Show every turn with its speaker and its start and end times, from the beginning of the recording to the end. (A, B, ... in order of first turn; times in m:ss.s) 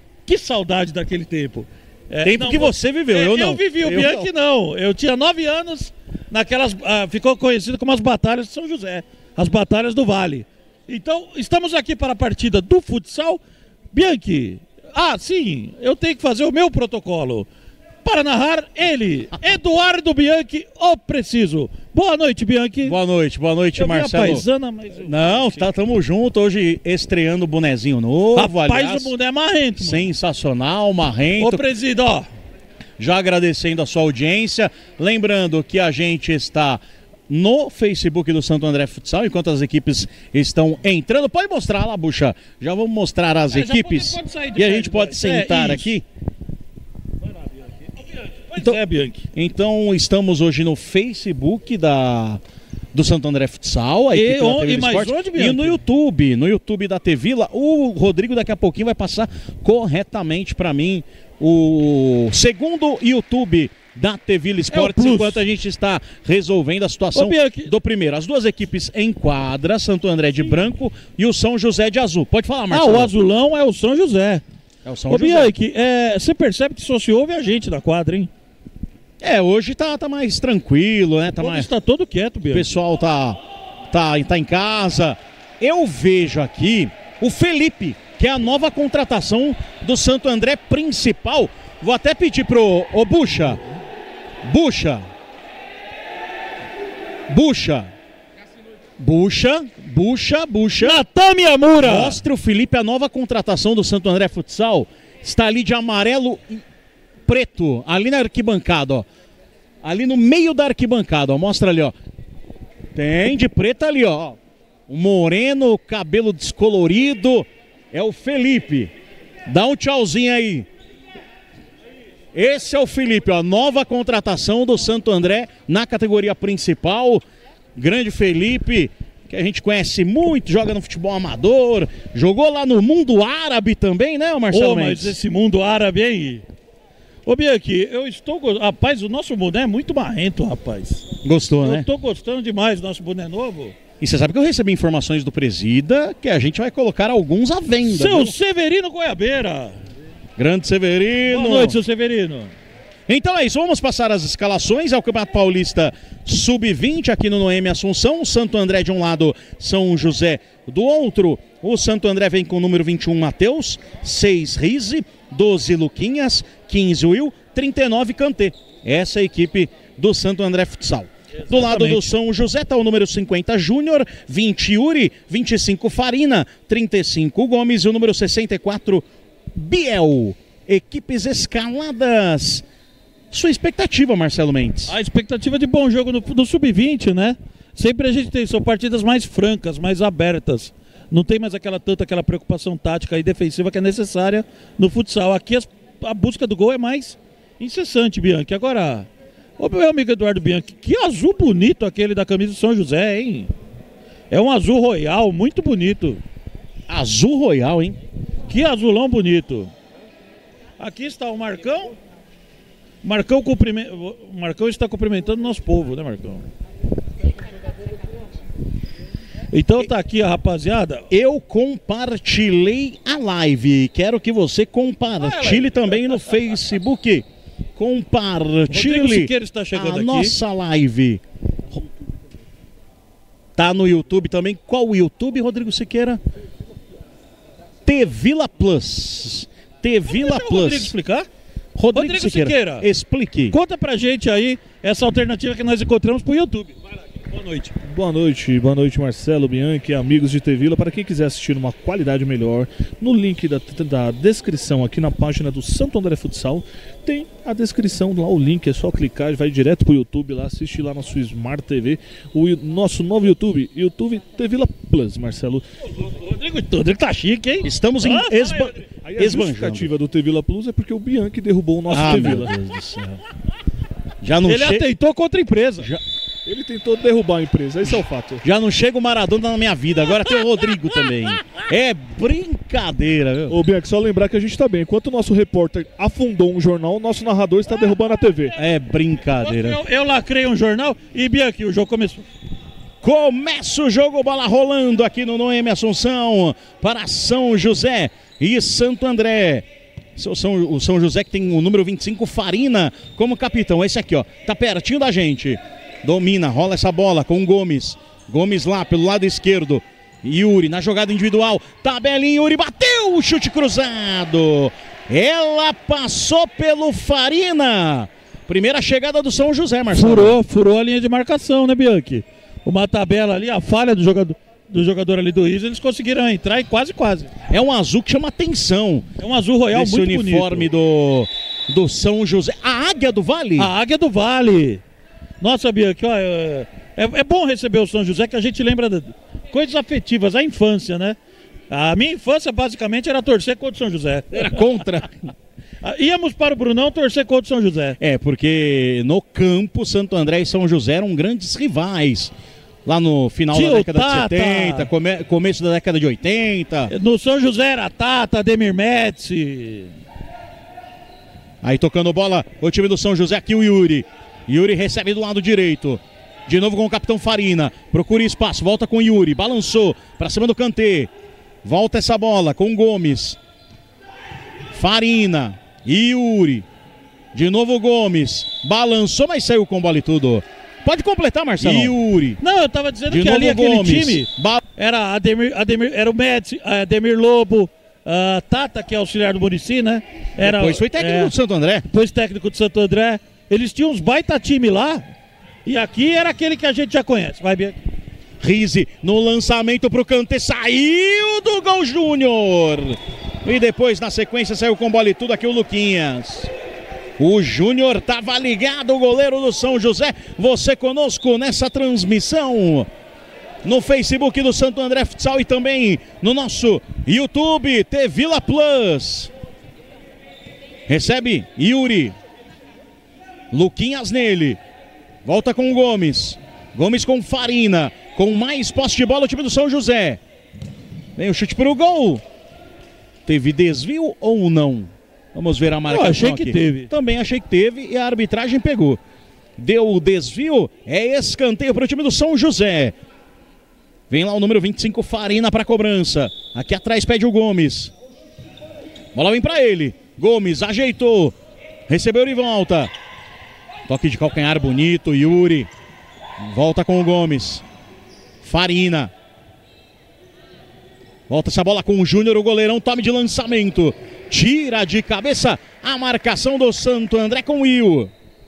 0:00.3-0:13.4 A
0:02.2-0:04.3 B
0:13.9-0:17.5 A
0:18.0-0:23.0 A
0:22.8-0:24.4 B
0:23.8-0:25.7 A
0:25.0-0:29.1 B
0:28.3-0:30.1 A
0:29.8-0:31.6 B
0:31.4-0:32.3 A
0:33.0-0:46.0 B
0:43.5-0:46.0 A
0:48.1-0:49.3 A
0:49.3-0:52.4 B
0:52.9-1:13.1 B
0:54.1-0:55.8 A
1:04.7-1:05.4 A
1:07.1-1:07.7 A
1:12.7-1:14.4 A
1:14.8-1:15.5 B
1:15.1-1:18.3 A
1:19.2-1:21.7 B
1:21.4-1:22.7 A
1:22.5-1:33.6 B
1:34.4-1:35.0 B
1:37.3-1:37.9 B
1:39.0-1:41.0 B
1:40.8-1:42.2 A
1:41.8-1:46.6 B
1:47.2-1:49.0 B
1:49.8-1:51.9 B
1:52.9-1:54.4 B
1:54.9-1:58.9 B
1:59.4-2:00.7 B
2:02.3-2:07.2 B
2:07.8-2:15.1 B
2:14.5-2:16.4 A
2:17.2-2:21.0 A
2:21.2-2:21.9 B
2:21.6-2:23.8 A
2:24.0-2:28.3 B
2:27.9-2:29.8 A
2:30.4-2:31.8 B
2:31.3-2:32.5 A
2:33.1-3:02.6 B
2:51.5-2:52.1 A
3:03.3-3:04.9 B
3:04.9-3:19.1 A
3:19.6-3:23.5 A
3:24.3-3:26.2 A
3:26.9-3:28.0 B
3:28.5-3:29.7 A
3:30.8-3:31.9 A
3:33.0-3:36.4 A
3:39.5-3:41.1 A
3:41.1-3:51.2 B
3:45.2-3:46.1 A
3:48.7-3:50.4 A
3:53.6-3:56.2 B
3:57.8-4:00.9 B
4:00.0-4:01.3 A
4:01.7-4:03.6 B
4:01.9-4:02.8 A
4:03.5-4:07.7 A
4:07.8-4:25.6 C
4:26.0-4:28.8 A
4:27.6-4:29.9 B
4:29.0-4:32.5 C
4:31.9-4:33.2 B
4:32.0-4:32.4 A
4:34.2-4:34.8 B
4:34.4-4:35.9 A
4:36.4-4:38.4 C
4:38.4-4:43.5 B
4:43.5-4:48.5 C
4:48.6-4:49.8 B
4:49.4-4:52.2 A
4:53.0-5:20.4 B
5:19.9-5:27.3 A
5:27.5-5:29.1 B
5:29.2-5:30.7 A
5:29.7-5:33.7 B
5:33.6-5:34.8 A
5:35.4-5:41.2 A
5:41.7-5:44.6 A
5:44.3-5:45.2 B
5:45.8-5:48.0 A
5:48.0-5:52.3 B
5:52.8-5:56.9 B
5:53.5-5:54.9 A
5:56.9-5:59.9 A
6:01.6-6:11.1 B
6:11.6-6:13.4 B
6:14.7-6:16.6 B
6:17.3-6:22.4 B
6:21.6-6:31.3 A
6:23.1-6:24.6 B
6:30.4-6:31.8 B
6:31.9-6:35.0 A
6:35.6-6:37.8 A
6:38.4-6:46.5 B
6:47.2-6:52.9 B
6:53.6-6:59.3 B
7:00.9-7:02.1 B
7:03.5-7:04.6 B
7:05.2-7:10.2 B
7:11.2-7:12.2 B
7:13.2-7:19.0 B
7:15.9-7:16.9 A
7:19.6-7:22.9 B
7:24.1-7:27.9 B
7:29.1-7:31.3 B
7:31.9-7:32.9 B
7:33.9-7:35.7 B
7:36.4-7:37.6 B
7:38.4-7:39.1 B
7:41.3-7:48.1 B